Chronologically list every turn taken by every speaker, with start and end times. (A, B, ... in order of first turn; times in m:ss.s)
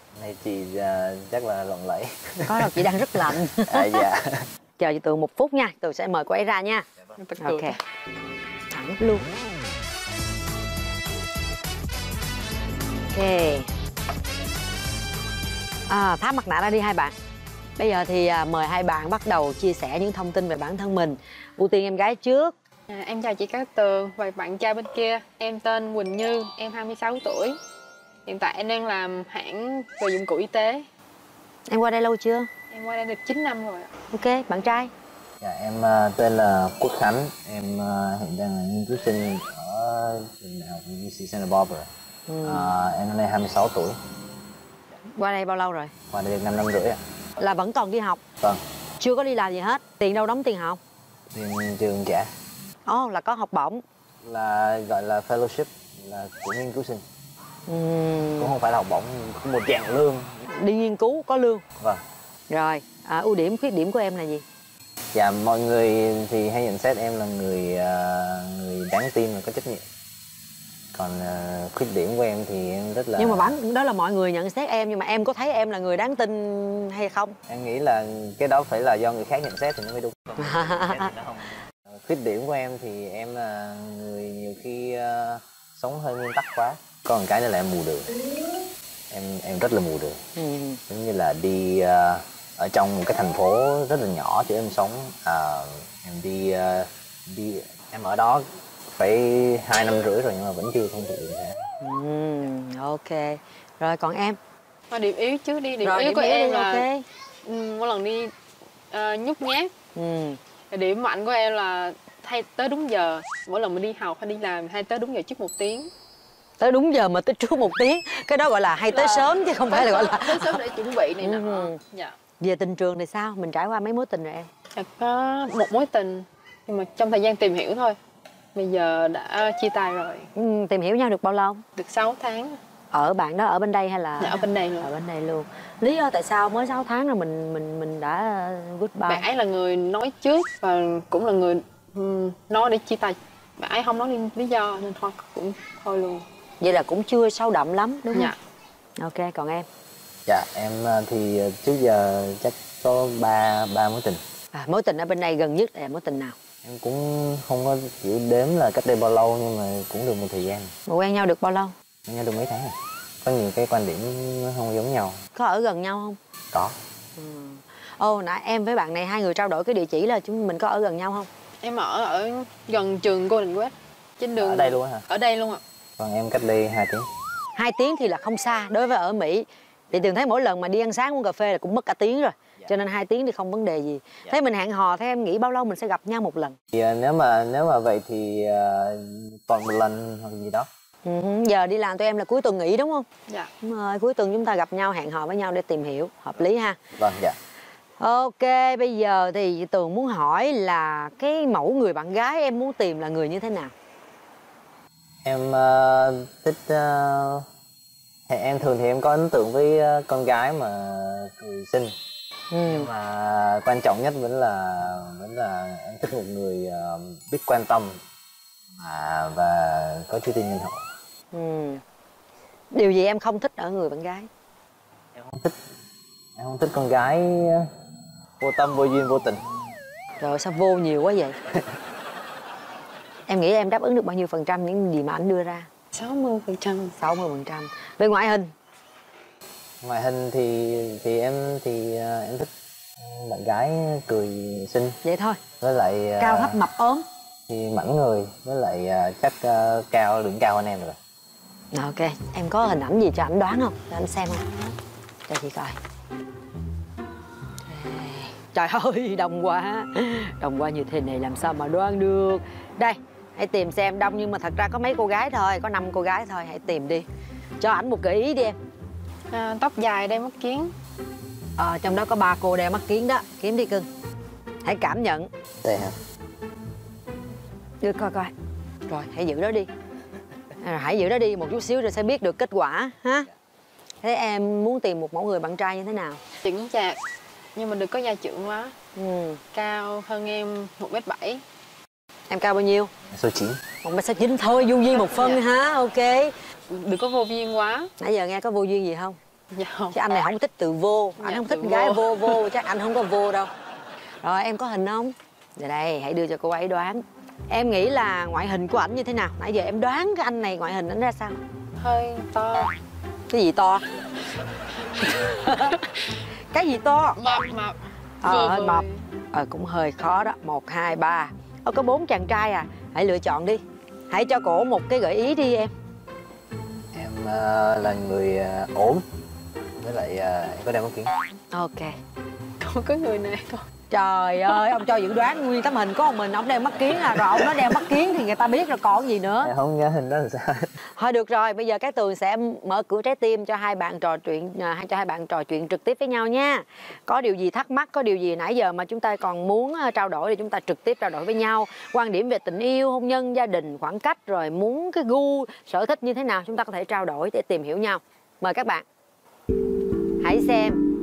0:00.2-0:02.9 A
0:02.5-0:04.0 B
0:03.7-0:04.5 A
0:04.8-0:06.9 B
0:07.2-0:07.8 C
0:07.4-0:07.8 B
0:08.7-0:09.3 B
0:13.1-0:13.7 B
0:15.9-0:17.2 B
0:17.8-0:22.5 B
0:22.9-0:27.6 C
0:28.3-0:30.9 C
0:31.7-0:32.5 B
0:32.7-0:33.9 C
0:34.1-0:34.9 B
0:35.4-0:41.9 A
0:42.3-0:42.7 B
0:42.4-0:44.0 A
0:45.2-0:45.9 B
0:46.1-0:47.0 A
0:47.4-0:48.2 B
0:49.0-0:50.8 B
0:51.3-0:52.3 A
0:52.9-0:53.8 B
0:54.2-0:57.0 A
0:57.7-0:58.5 B
0:58.4-1:00.4 A
1:00.5-1:01.6 B
1:02.5-1:04.4 B
1:05.1-1:09.8 A
1:10.9-1:13.6 A
1:13.2-1:17.4 B
1:17.5-1:28.1 A
1:20.4-1:21.1 B
1:29.1-1:30.2 A
1:30.4-1:30.8 B
1:30.9-1:41.6 A
1:41.8-1:44.4 B
1:44.9-1:46.8 C
1:45.8-1:47.0 B
1:47.4-1:48.3 C
1:48.9-1:49.7 C
1:50.0-1:50.4 B
1:50.7-1:55.9 C
1:56.6-2:00.6 B
1:58.9-2:02.2 C
2:01.2-2:01.8 B
2:02.4-2:04.5 B
2:04.7-2:08.0 C
2:08.6-2:10.3 C
2:10.4-2:11.6 B
2:11.8-2:12.6 C
2:12.9-2:19.2 B
2:14.2-2:14.9 C
2:19.0-2:26.2 C
2:26.6-2:28.3 B
2:28.1-2:28.4 C
2:29.0-2:29.7 B
2:30.3-2:34.2 A
2:34.5-2:36.4 B
2:36.6-2:40.7 A
2:40.9-2:41.7 B
2:42.1-2:45.2 A
2:45.4-2:46.2 B
2:47.2-2:51.3 B
2:51.6-2:55.6 C
2:54.4-2:55.1 A
2:56.0-2:57.1 A
2:57.6-3:06.6 B
3:06.7-3:10.7 A
3:11.0-3:13.1 B
3:13.6-3:16.8 B
3:17.0-3:17.4 A
3:18.0-3:23.7 B
3:25.2-3:27.5 A
3:28.3-3:31.9 A
3:32.5-3:32.9 B
3:32.7-3:38.0 A
3:38.8-3:40.8 A
3:41.3-3:41.8 B
3:42.7-3:44.3 B
3:45.1-3:45.6 A
3:46.4-3:47.7 A
3:48.4-3:49.4 A
3:50.2-3:51.4 B
3:53.3-3:55.7 B
3:55.9-3:57.0 C
3:57.0-3:58.5 B
3:59.8-4:05.0 A
4:05.0-4:05.4 B
4:05.6-4:06.6 A
4:06.2-4:07.1 B
4:07.5-4:11.0 A
4:11.7-4:14.7 B
4:15.3-4:15.8 B
4:17.7-4:27.1 B
4:27.6-4:28.6 B
4:29.3-4:30.7 C
4:31.6-4:33.9 B
4:34.6-4:35.3 B
4:35.6-4:36.0 A
4:37.8-4:38.3 B
4:38.9-4:39.7 B
4:40.6-4:43.3 B
4:44.0-4:46.2 B
4:46.4-4:47.0 C
4:47.6-4:48.8 C
4:49.0-4:49.4 B
4:49.5-4:51.4 C
4:52.3-4:52.9 B
4:53.1-4:53.6 A
4:53.8-4:56.4 B
4:54.9-4:55.4 C
4:56.7-4:57.9 C
4:58.0-4:59.2 B
4:59.5-5:00.2 C
4:59.9-5:03.5 B
5:01.2-5:02.4 C
5:04.2-5:11.4 B
5:11.8-5:12.8 C
5:13.3-5:13.8 B
5:15.0-5:15.8 C
5:15.3-5:15.8 B
5:16.5-5:17.2 B
5:17.2-5:19.1 C
5:18.2-5:25.7 B
5:26.9-5:29.0 A
5:29.8-5:31.1 A
5:31.5-5:32.0 B
5:32.6-5:33.7 C
5:33.9-5:39.5 B
5:39.4-5:40.7 A
5:41.0-5:58.8 B
6:00.2-6:00.8 B